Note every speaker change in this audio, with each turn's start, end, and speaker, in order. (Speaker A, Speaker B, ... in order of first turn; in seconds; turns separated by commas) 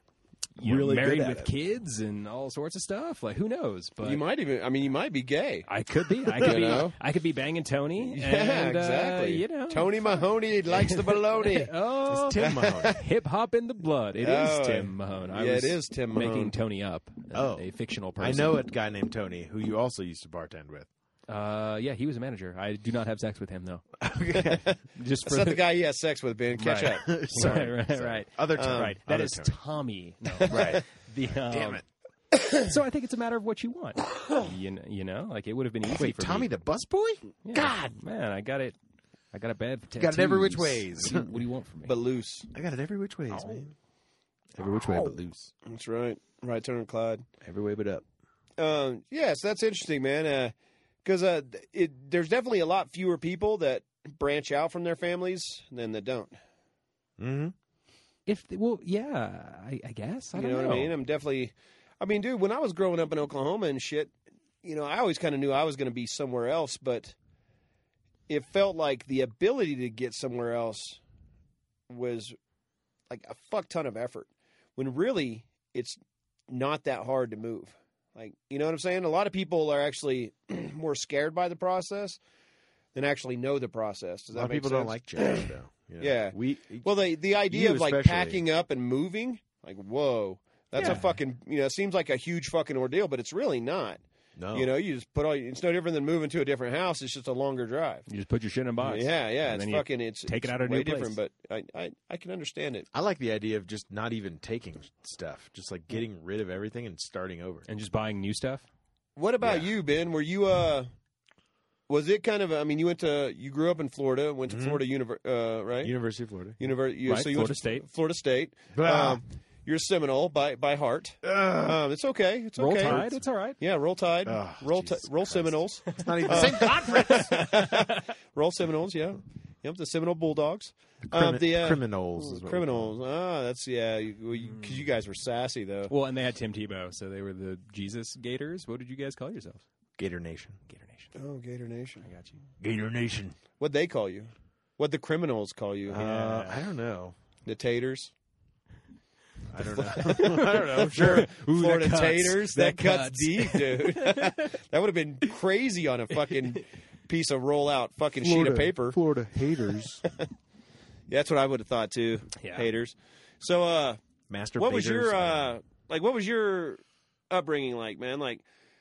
Speaker A: 0.6-4.2, Speaker B: 0.6-1.5, Speaker C: 4.0-5.7, Speaker A: 5.7-18.6, Speaker C: 6.3-7.0, Speaker B: 6.4-6.7, Speaker C: 8.0-11.7, Speaker B: 12.1-12.9, Speaker C: 12.4-13.0, Speaker C: 14.2-16.5, Speaker B: 17.3-17.6, Speaker B: 18.2-20.9, Speaker A: 21.3-23.8, Speaker B: 24.0-24.6, Speaker C: 24.3-24.7, Speaker A: 24.9-25.6, Speaker C: 25.2-27.7, Speaker A: 26.6-31.8, Speaker B: 27.0-29.5, Speaker C: 28.6-28.9, Speaker C: 30.5-30.8, Speaker B: 30.5-30.8, Speaker B: 31.4-31.8, Speaker A: 32.6-36.5, Speaker B: 35.9-37.9, Speaker A: 37.4-38.8, Speaker A: 39.3-41.9, Speaker B: 40.0-41.3, Speaker C: 41.8-42.5, Speaker B: 42.5-43.7, Speaker B: 44.5-45.5, Speaker C: 44.7-47.3, Speaker B: 47.4-48.0, Speaker C: 48.6-56.4, Speaker B: 57.2-57.5, Speaker A: 58.3-60.9, Speaker C: 60.4-67.1, Speaker C: 68.3-71.0, Speaker C: 71.9-72.3, Speaker C: 73.1-76.0, Speaker C: 76.5-82.2, Speaker C: 82.9-94.0, Speaker B: 84.3-86.9, Speaker B: 87.5-88.4, Speaker A: 90.8-91.2, Speaker B: 94.4-94.7, Speaker C: 94.5-98.1, Speaker A: 98.1-101.2, Speaker C: 98.8-102.9, Speaker B: 102.9-107.7, Speaker A: 107.7-108.7, Speaker C: 109.2-110.9, Speaker B: 109.4-109.7, Speaker C: 111.9-115.9, Speaker B: 114.5-114.8, Speaker B: 115.8-116.6, Speaker C: 116.6-123.0, Speaker A: 117.1-117.8, Speaker B: 118.7-119.2, Speaker B: 121.2-121.8, Speaker A: 122.6-123.6, Speaker B: 122.8-123.2, Speaker C: 123.6-135.9, Speaker B: 124.2-127.5, Speaker A: 125.9-128.0, Speaker B: 131.1-132.9, Speaker A: 134.3-134.8, Speaker A: 135.9-139.6, Speaker B: 140.0-140.6, Speaker A: 140.7-141.1, Speaker C: 141.1-142.1, Speaker A: 142.0-142.3, Speaker B: 142.6-143.4, Speaker C: 143.6-146.6, Speaker B: 145.9-147.1, Speaker C: 147.4-148.1, Speaker B: 149.5-151.3, Speaker C: 149.8-159.0, Speaker A: 150.0-154.5, Speaker B: 158.2-160.0, Speaker C: 159.8-160.3, Speaker C: 161.1-164.0, Speaker A: 162.4-162.7, Speaker B: 164.3-165.6, Speaker C: 164.6-168.4